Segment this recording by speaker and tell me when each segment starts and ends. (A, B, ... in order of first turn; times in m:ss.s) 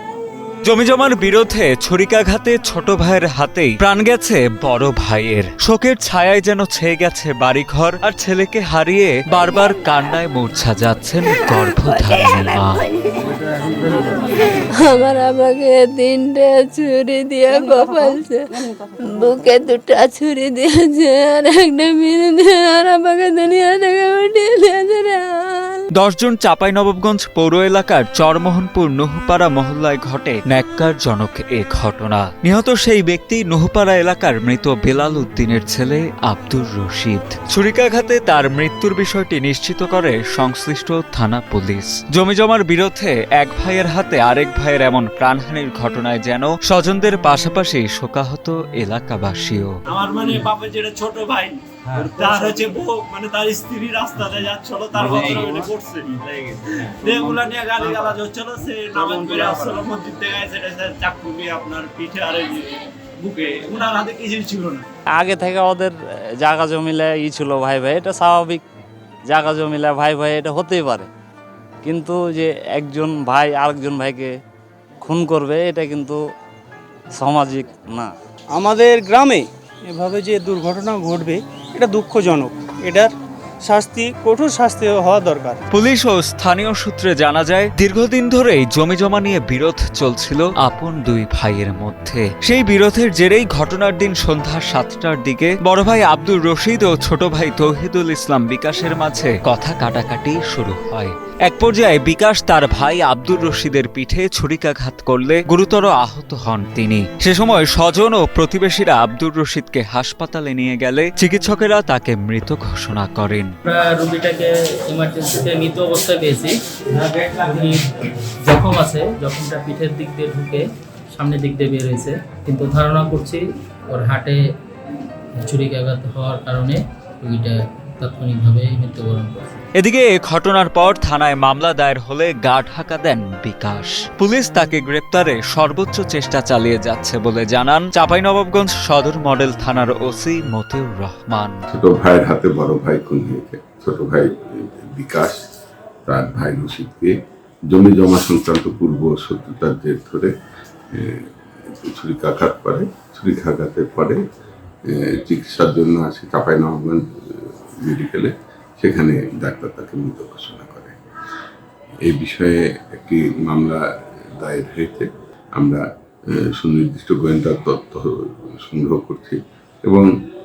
0:00.6-0:12.8 A
0:14.9-0:18.4 B
0:19.1-0:25.8 B
0:26.0-0:49.8 A
0:49.9-1:04.9 C
1:05.1-1:08.6 D
1:09.3-1:11.1 D
1:11.8-1:14.3 D
1:15.0-1:16.2 D
1:17.2-1:18.1 D
1:18.6-1:23.1 E
1:23.7-1:25.6 E
1:25.7-1:53.6 A
1:53.6-2:00.6 F
2:01.1-2:04.4 F
2:05.4-2:09.7 F
2:09.8-2:21.7 A
2:21.7-2:25.4 G
2:26.1-2:27.1 G
2:27.7-2:30.3 G
2:30.9-2:34.2 G
2:34.9-2:41.0 G
2:42.0-2:43.8 G
2:44.4-2:45.8 G
2:46.4-2:50.1 G